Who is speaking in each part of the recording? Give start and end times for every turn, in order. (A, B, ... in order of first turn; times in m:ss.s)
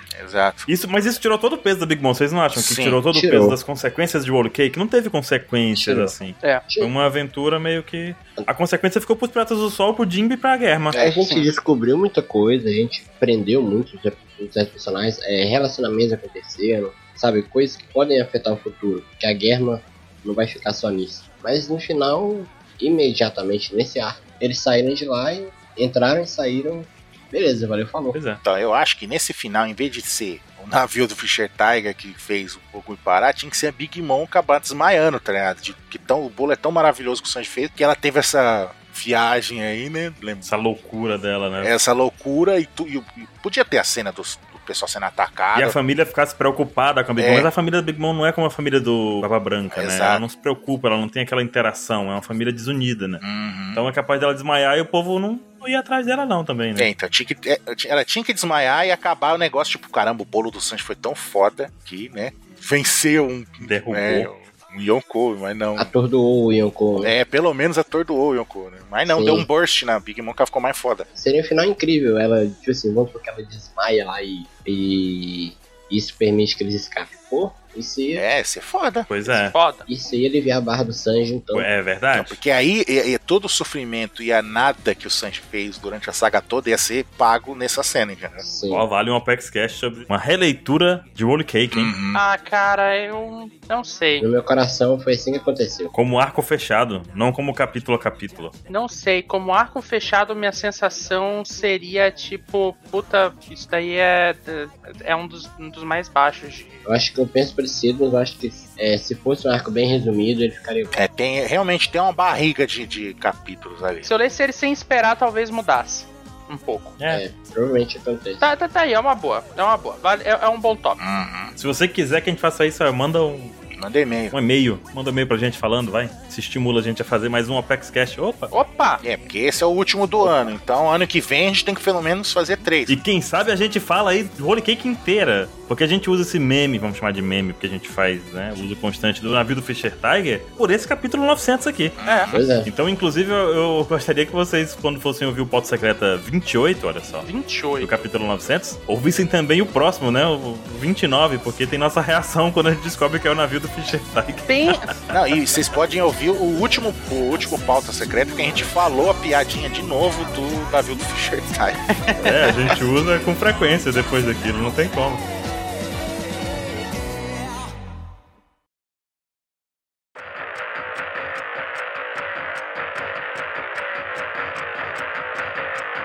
0:00.1-0:00.7 A
0:00.7-0:10.9 B
0:02.6-0:03.0 A
0:03.1-0:03.6 C
0:05.7-0:06.2 C
0:10.9-0:11.4 A
0:10.9-0:28.2 C
0:28.1-0:28.4 B
0:28.4-0:40.5 A
0:40.4-0:41.7 B
0:41.6-0:45.8 A
0:45.5-0:53.2 B
0:47.2-0:47.5 A
0:49.7-0:50.2 A
0:53.2-0:53.8 A
0:53.7-0:56.9 B
0:56.8-1:05.9 A
1:03.6-1:04.3 B
1:05.8-1:07.1 C
1:07.0-1:11.1 A
1:09.1-1:09.5 C
1:11.1-1:18.2 C
1:18.1-1:19.1 A
1:19.1-1:19.6 B
1:19.5-1:19.8 D
1:19.9-1:21.7 C
1:21.5-1:22.4 B
1:22.1-1:28.4 A
1:28.4-1:28.9 C
1:28.7-1:31.9 B
1:31.7-1:32.2 A
1:32.1-1:34.2 D
1:34.2-1:35.9 C
1:35.9-1:38.5 B
1:38.7-1:46.8 D
1:46.8-1:50.9 C
1:50.9-1:54.1 A
1:54.0-1:56.9 D
1:57.1-1:58.4 C
1:58.4-2:01.0 D
2:01.0-2:01.5 A
2:01.6-2:03.6 B
2:03.7-2:04.3 A
2:04.3-2:08.5 B
2:08.5-2:09.0 D
2:09.0-2:13.0 A
2:10.2-2:10.5 C
2:12.9-2:22.0 B
2:22.0-2:22.5 A
2:22.0-2:22.3 D
2:22.3-2:22.7 C
2:22.6-2:27.3 B
2:27.2-2:27.9 D
2:27.8-2:35.0 B
2:34.5-2:34.9 D
2:35.1-2:41.8 A
2:42.0-2:42.4 D
2:42.2-2:45.2 B